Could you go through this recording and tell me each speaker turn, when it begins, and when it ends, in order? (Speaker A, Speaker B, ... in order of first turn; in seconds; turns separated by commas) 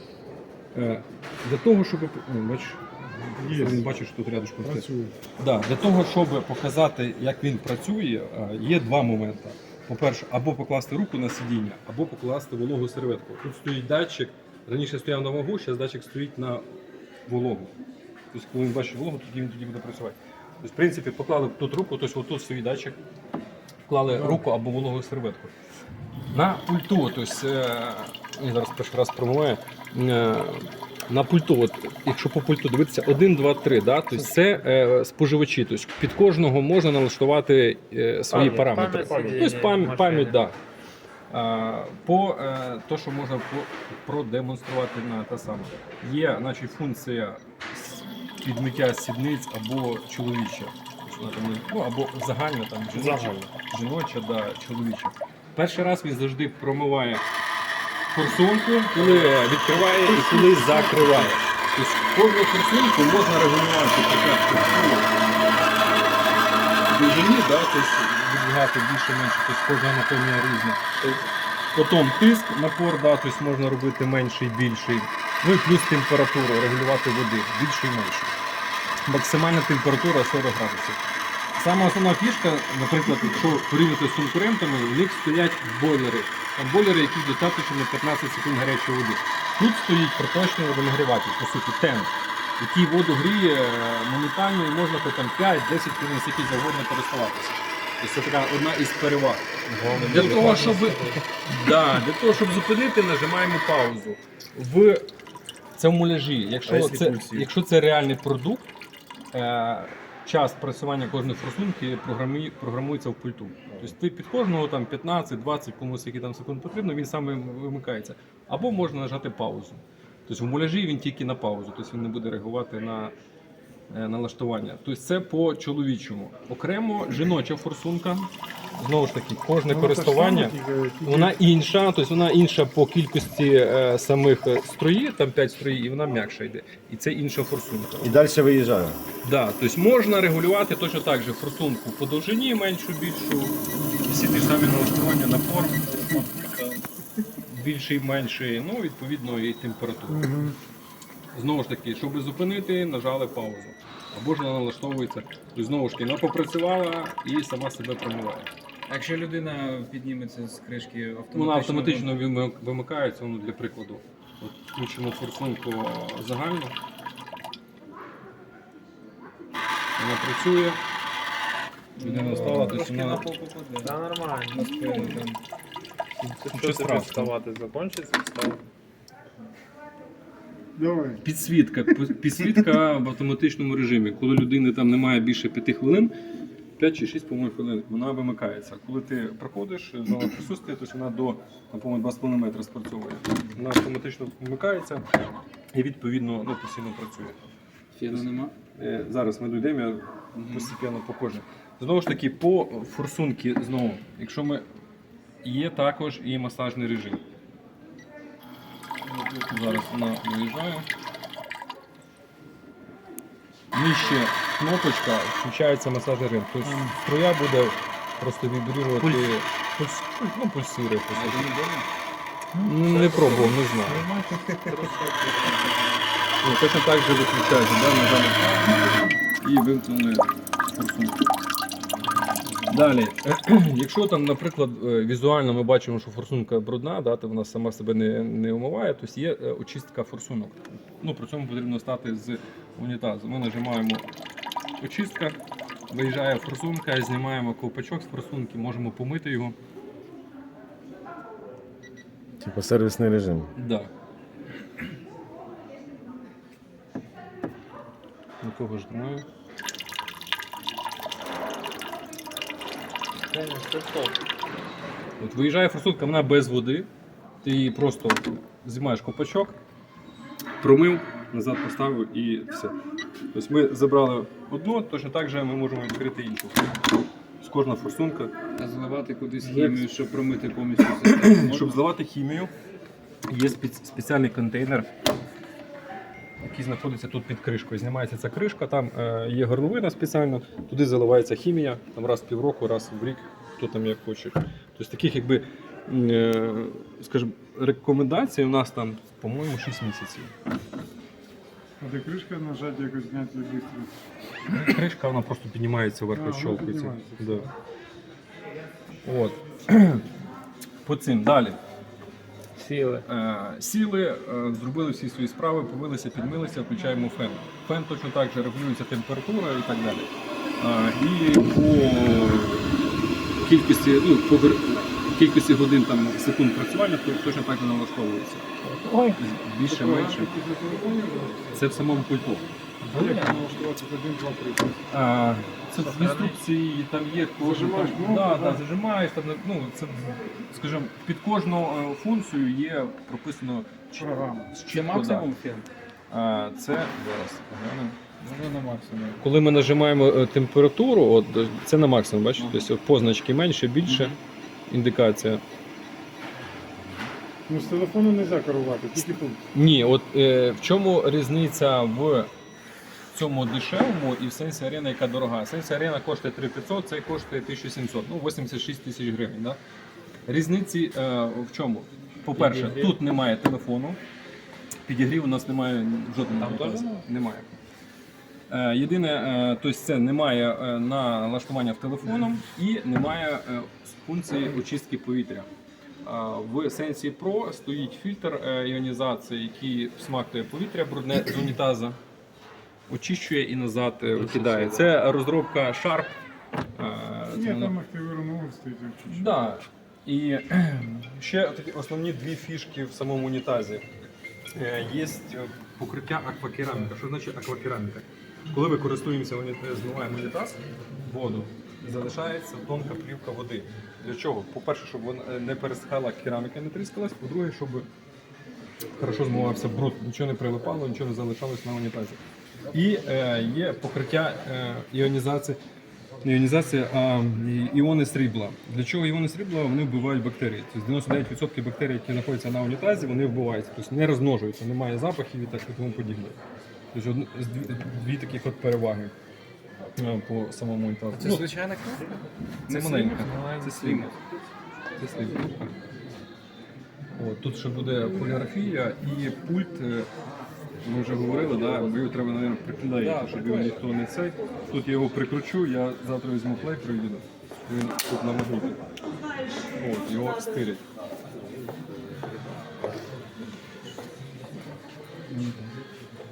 Speaker A: 0.7-2.8, Speaker B: 3.3-3.8, Speaker A: 3.4-4.9, Speaker B: 4.6-5.1, Speaker A: 5.4-16.6, Speaker A: 17.2-17.7, Speaker A: 18.3-23.0, Speaker A: 23.9-25.5, Speaker B: 24.1-24.4, Speaker A: 26.3-40.6, Speaker C: 38.3-40.3, Speaker D: 38.4-40.3, Speaker A: 41.3-57.2, Speaker C: 53.0-53.5, Speaker A: 58.1-65.1, Speaker D: 59.0-59.3, Speaker B: 60.3-61.0, Speaker A: 66.9-70.8, Speaker A: 71.7-78.3, Speaker A: 79.0-81.0, Speaker A: 81.5-105.1, Speaker D: 99.7-101.2, Speaker C: 100.4-101.0, Speaker A: 105.8-108.7, Speaker E: 106.7-107.4, Speaker A: 109.3-123.1, Speaker A: 123.9-138.2, Speaker B: 129.7-131.3, Speaker E: 138.0-139.0, Speaker A: 139.2-146.8, Speaker A: 147.5-150.4, Speaker B: 150.1-150.5, Speaker A: 151.3-158.5, Speaker D: 158.9-162.1, Speaker A: 161.3-166.8, Speaker A: 170.0-170.8, Speaker A: 172.0-173.2, Speaker D: 172.0-175.4, Speaker C: 173.8-175.2, Speaker C: 176.2-178.6, Speaker A: 176.5-177.3, Speaker B: 180.8-181.2, Speaker A: 181.2-186.1, Speaker A: 186.8-195.1, Speaker A: 195.7-197.4, Speaker D: 197.9-198.5, Speaker A: 198.1-204.6, Speaker D: 200.3-200.7, Speaker A: 205.4-207.2, Speaker D: 209.0-209.9, Speaker A: 209.5-210.9, Speaker A: 213.7-221.5, Speaker D: 219.0-219.3, Speaker D: 221.1-221.9, Speaker A: 222.6-224.1, Speaker D: 222.8-223.6, Speaker C: 223.8-224.9, Speaker D: 224.5-225.7, Speaker A: 226.4-231.2, Speaker D: 232.5-232.8, Speaker A: 232.7-244.1, Speaker A: 244.8-245.4, Speaker A: 245.9-249.6, Speaker E: 252.4-253.5, Speaker A: 253.6-253.9, Speaker A: 258.4-259.2, Speaker D: 263.3-264.1, Speaker A: 265.2-266.9, Speaker A: 267.4-269.6, Speaker A: 270.6-272.7, Speaker A: 273.3-276.7, Speaker A: 277.4-278.3, Speaker D: 278.6-281.8, Speaker A: 279.4-279.8, Speaker A: 281.0-282.5, Speaker A: 283.3-284.9, Speaker A: 286.4-300.3, Speaker B: 301.8-303.9, Speaker A: 304.5-307.5, Speaker B: 306.1-307.5, Speaker A: 309.0-310.1, Speaker A: 310.8-311.6, Speaker C: 312.7-313.0, Speaker A: 313.0-322.7, Speaker A: 323.4-328.4, Speaker C: 328.6-329.2, Speaker A: 329.2-330.3, Speaker B: 329.6-331.6, Speaker A: 331.5-333.1, Speaker B: 332.8-334.8, Speaker C: 333.0-333.3, Speaker A: 334.9-345.3, Speaker B: 335.8-336.3, Speaker B: 337.4-338.6, Speaker B: 344.0-344.5, Speaker D: 344.6-345.6, Speaker A: 346.1-348.0, Speaker D: 348.2-349.2, Speaker A: 349.2-354.2, Speaker D: 352.4-352.6, Speaker D: 353.9-354.2, Speaker A: 354.7-355.4, Speaker B: 357.5-359.4, Speaker A: 359.0-362.3, Speaker A: 363.1-369.6, Speaker A: 370.3-374.0, Speaker D: 372.3-373.0, Speaker A: 374.9-377.6, Speaker D: 376.3-377.0, Speaker A: 378.5-385.5, Speaker A: 386.0-392.0, Speaker A: 392.9-396.2, Speaker D: 394.2-394.8, Speaker A: 396.8-397.7, Speaker B: 397.3-399.5, Speaker A: 399.1-403.9, Speaker A: 404.5-417.9, Speaker A: 418.9-422.2, Speaker A: 422.7-425.6, Speaker A: 426.2-436.4, Speaker A: 436.9-439.1, Speaker A: 440.0-441.5, Speaker D: 441.1-442.1, Speaker A: 442.7-444.1, Speaker D: 442.7-444.1, Speaker A: 445.0-445.7, Speaker A: 447.1-450.1, Speaker A: 450.8-458.8, Speaker D: 453.0-453.6, Speaker A: 459.7-460.8